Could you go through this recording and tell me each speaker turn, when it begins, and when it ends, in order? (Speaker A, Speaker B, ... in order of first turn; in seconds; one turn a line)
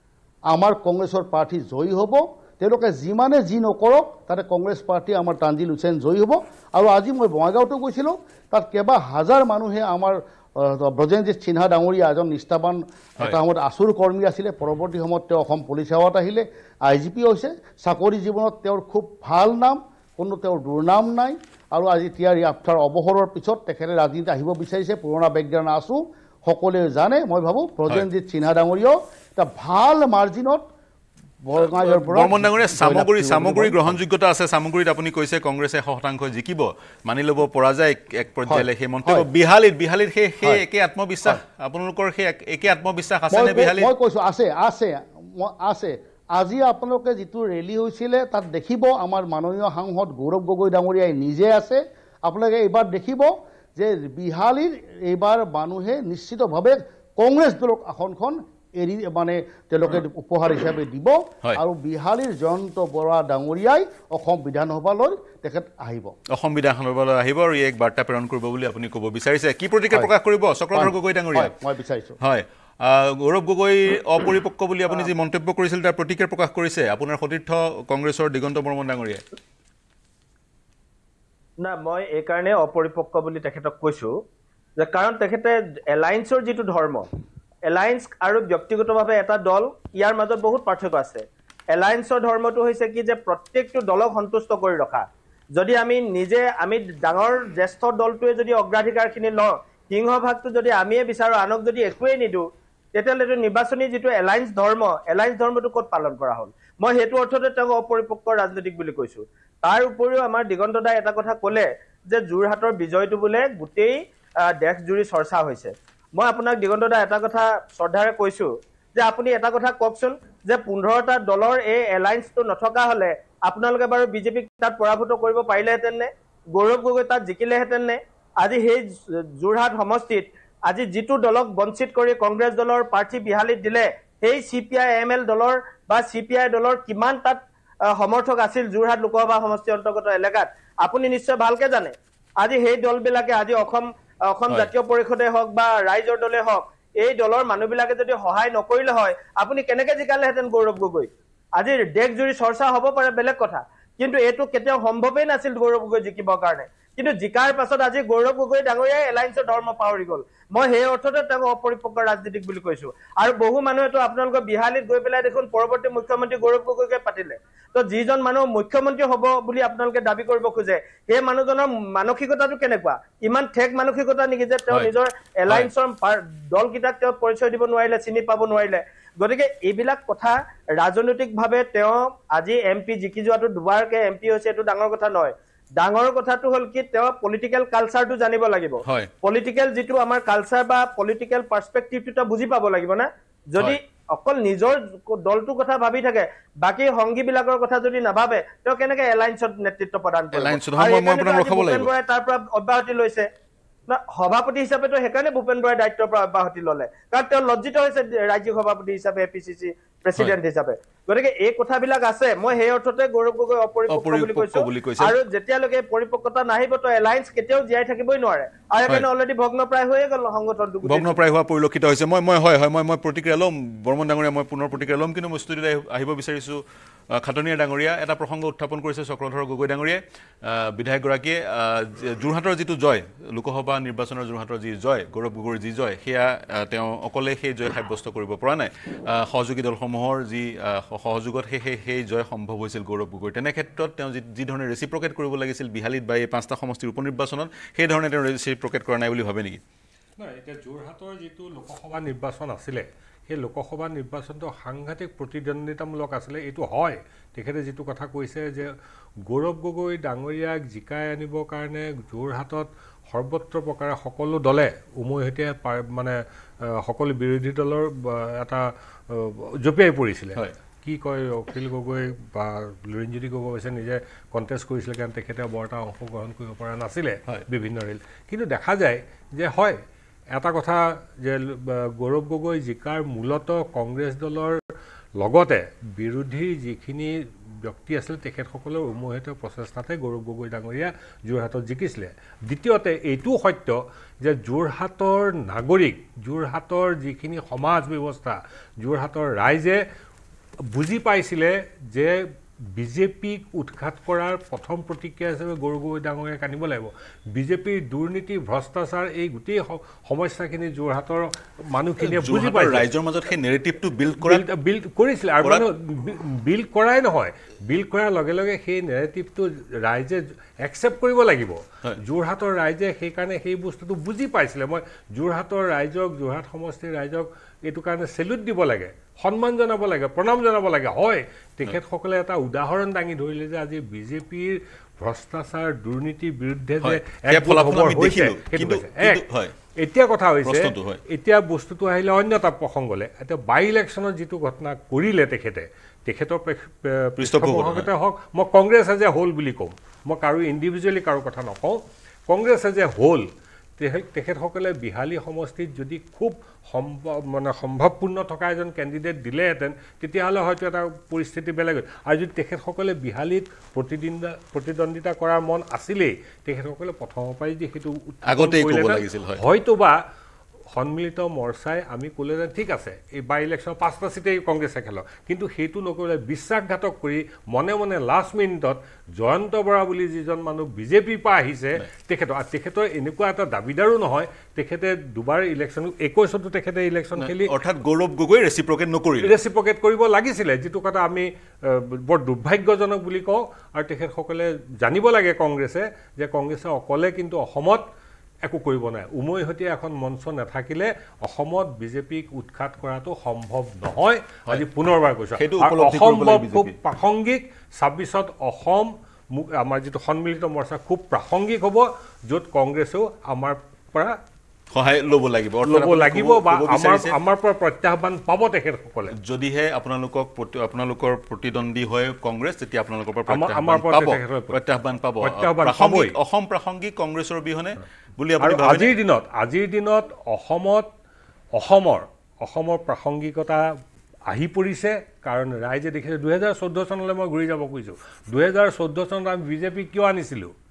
Speaker A: 0.5-30.6
Speaker A: 31.4-33.9
Speaker B: 31.6-43.9
Speaker A: 38.5-39.3
Speaker A: 43.3-66.2
Speaker B: 66.3-71.5
Speaker A: 70.7-72.2
Speaker B: 72.2-79.2
Speaker C: 81.6-84.2
Speaker C: 84.8-87.1
Speaker C: 87.7-203.3
Speaker B: 188.8-189.1
Speaker B: 200.3-201.9
Speaker C: 203.9-221.2
Speaker B: 213.9-215.2
Speaker B: 220.8-226.6
Speaker B: 227.1-249.6
Speaker D: 250.2-258.7
Speaker D: 259.3-266.2
Speaker D: 266.7-279.8
Speaker D: 280.3-284.6
Speaker D: 285.2-299.8
Speaker D: 300.7-312.9
Speaker B: 312.0-314.4
Speaker D: 314.2-339.2
Speaker B: 336.8-339.5
Speaker D: 339.8-353.3
Speaker B: 340.4-341.0
Speaker B: 347.2-347.9
Speaker D: 353.8-370.0
Speaker B: 368.3-369.4
Speaker D: 370.7-387.5
Speaker B: 387.1-389.3
Speaker D: 389.2-397.8
Speaker D: 398.4-414.2
Speaker B: 405.4-406.8
Speaker B: 414.7-417.1
Speaker D: 415.6-419.1
Speaker B: 419.2-428.9
Speaker D: 423.3-424.6
Speaker D: 425.2-426.1
Speaker D: 428.4-430.9
Speaker D: 431.5-433.7
Speaker D: 434.3-440.5